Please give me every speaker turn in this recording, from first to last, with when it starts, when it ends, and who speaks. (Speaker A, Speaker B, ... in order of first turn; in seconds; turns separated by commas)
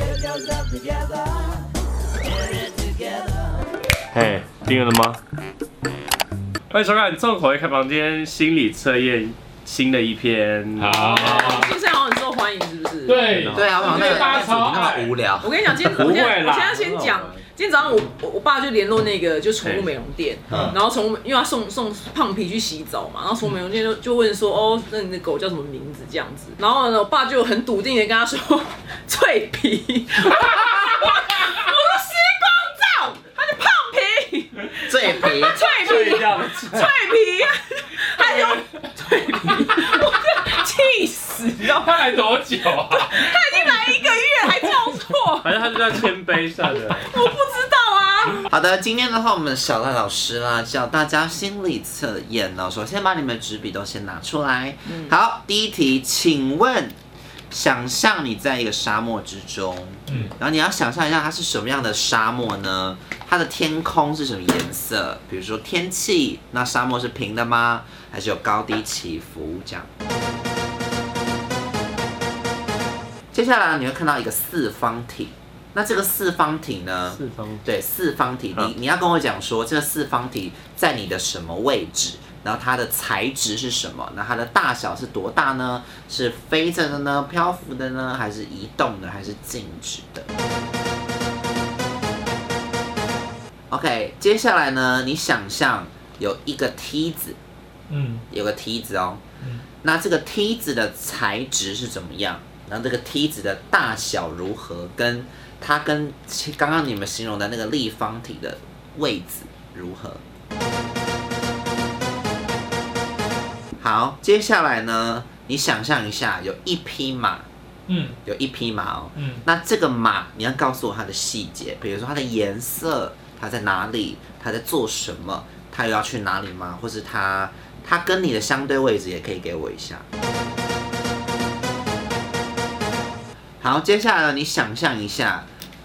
Speaker A: 0.5-1.0, Speaker B: 4.1-5.2, Speaker B: 6.7-11.5, Speaker C: 10.8-11.7, Speaker D: 10.9-46.0, Speaker C: 13.1-15.1, Speaker B: 13.3-13.8, Speaker A: 13.5-15.5, Speaker B: 15.9-17.4, Speaker B: 19.6-19.9, Speaker A: 34.9-35.7, Speaker B: 35.7-36.9, Speaker C: 41.6-44.0, Speaker B: 45.4-47.1, Speaker D: 46.6-48.5, Speaker A: 48.5-56.9, Speaker D: 54.9-55.1, Speaker A: 57.5-69.9, Speaker A: 73.3-90.3, Speaker B: 77.1-77.6, Speaker A: 93.7-97.3, Speaker C: 97.9-98.2, Speaker A: 98.3-99.2, Speaker A: 99.8-110.2, Speaker A: 113.8-117.4, Speaker C: 117.9-118.2, Speaker A: 118.2-130.0, Speaker A: 133.6-135.4